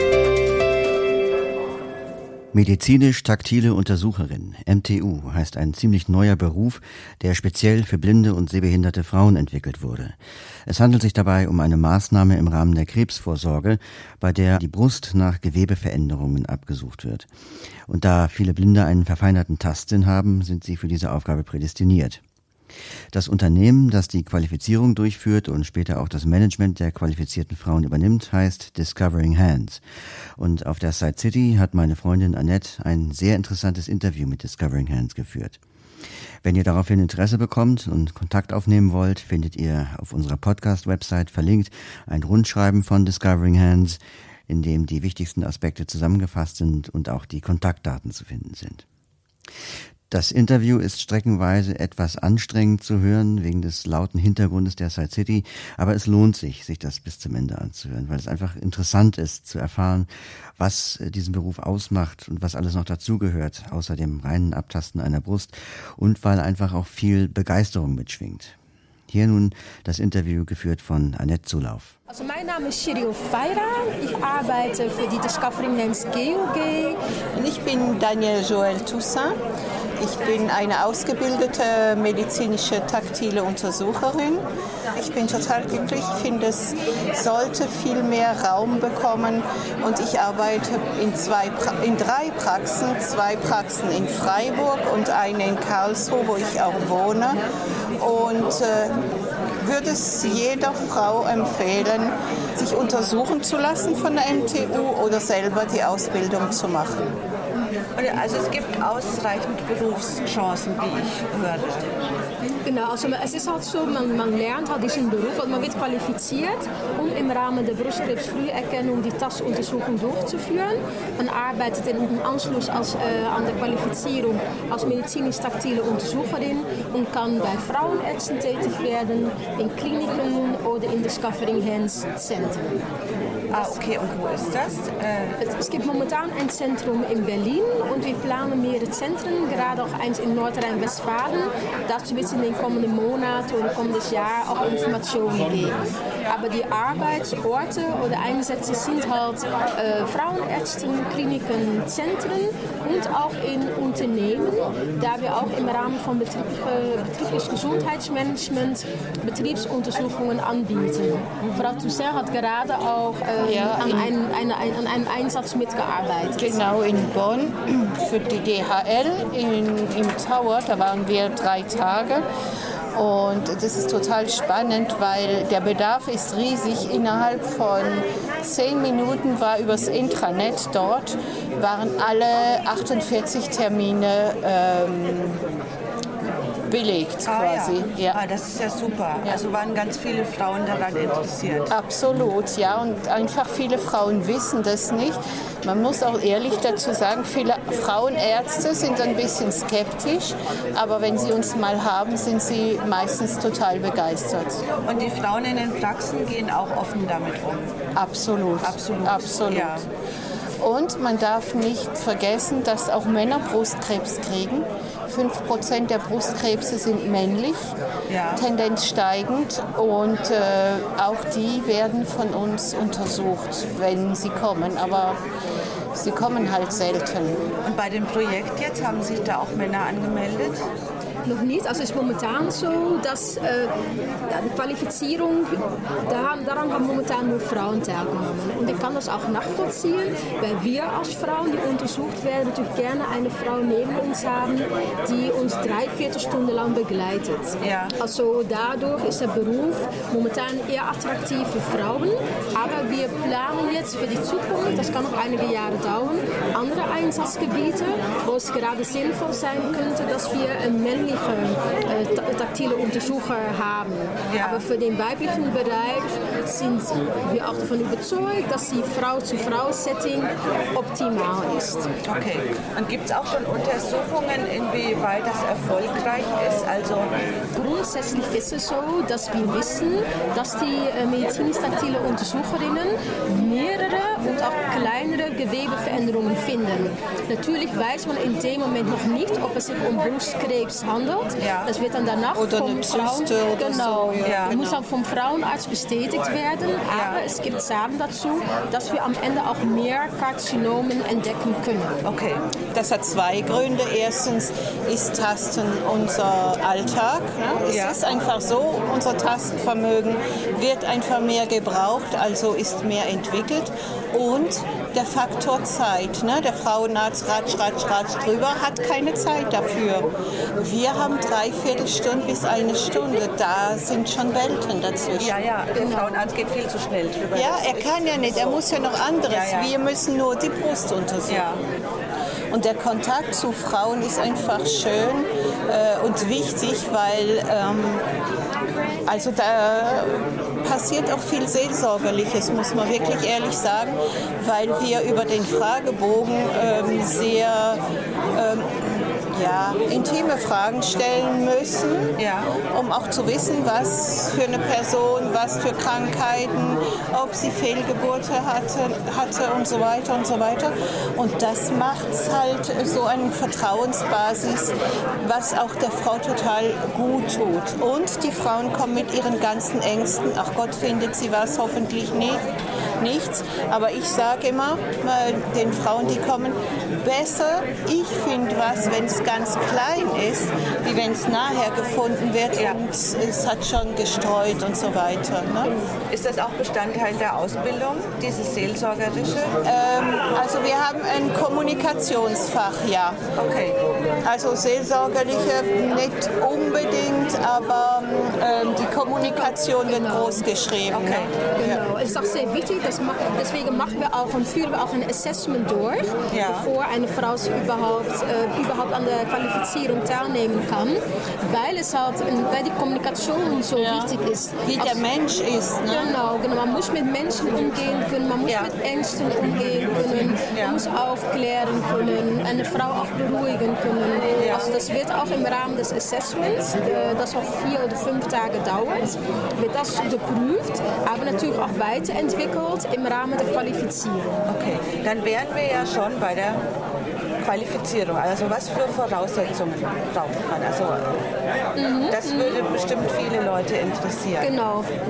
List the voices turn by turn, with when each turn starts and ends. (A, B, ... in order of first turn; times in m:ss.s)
0:02.5-0:17.3 A
0:17.9-0:22.2 A
0:23.1-0:29.8 A
0:30.4-0:35.6 A
0:36.4-0:48.8 A
0:50.1-1:08.5 A
1:09.1-1:11.9 A
1:12.1-1:17.0 B
1:17.3-1:19.3 C
1:20.0-1:37.4 C
1:38.0-1:39.0 C
1:39.6-1:47.1 C
1:48.0-1:51.9 D
1:52.6-2:12.8 B
2:13.5-2:15.4 D
2:13.5-2:13.8 B
2:15.4-2:46.6 B
2:43.4-2:44.1 C
2:46.4-2:52.2 C
2:52.9-3:05.4 C
3:06.7-3:08.2 C
3:07.2-3:11.7 D
3:11.7-3:24.6 C
3:24.8-3:27.7 D
3:28.0-3:29.9 C
3:28.6-3:29.8 D
3:30.6-3:37.7 C
3:38.1-3:38.4 D
3:38.3-3:45.2 C
3:45.9-3:47.4 C
3:47.6-3:50.6 D
3:51.2-3:53.7 B
3:54.3-4:31.9 B
4:07.6-4:08.0 D
4:24.3-4:24.7 D
4:32.0-4:37.2 D
4:37.5-5:02.0 B
4:51.4-4:51.7 D
4:52.3-4:54.8 C
4:54.2-4:54.6 D
4:56.9-4:57.2 D
5:02.0-5:02.4 D
5:02.7-5:25.4 C
5:07.7-5:08.0 D
5:25.2-5:28.6 D
5:25.8-5:26.2 B
5:27.3-5:31.4 C
5:29.3-5:29.7 D
5:31.3-5:31.6 D
5:32.5-5:38.0 C
5:39.1-5:47.8 C
5:48.3-5:52.1 C
5:52.2-5:52.5 D
5:52.7-6:12.4 C
6:13.0-6:25.7 C
6:26.1-6:29.6 D
6:29.6-6:33.2 C
6:33.4-6:33.8 D
6:34.2-6:41.8 C
6:39.2-6:40.4 B
6:40.9-6:41.3 D
6:41.5-6:55.0 B
6:46.3-6:46.7 D
6:53.8-6:54.1 C
6:54.6-6:56.1 C
6:55.9-7:14.5 B
6:58.4-6:58.7 D
7:00.5-7:00.8 D
7:04.4-7:04.7 D
7:14.4-7:16.6 D
7:17.4-7:21.1 D
7:21.8-7:22.6 B
7:22.1-7:24.5 D
7:24.4-7:24.9 B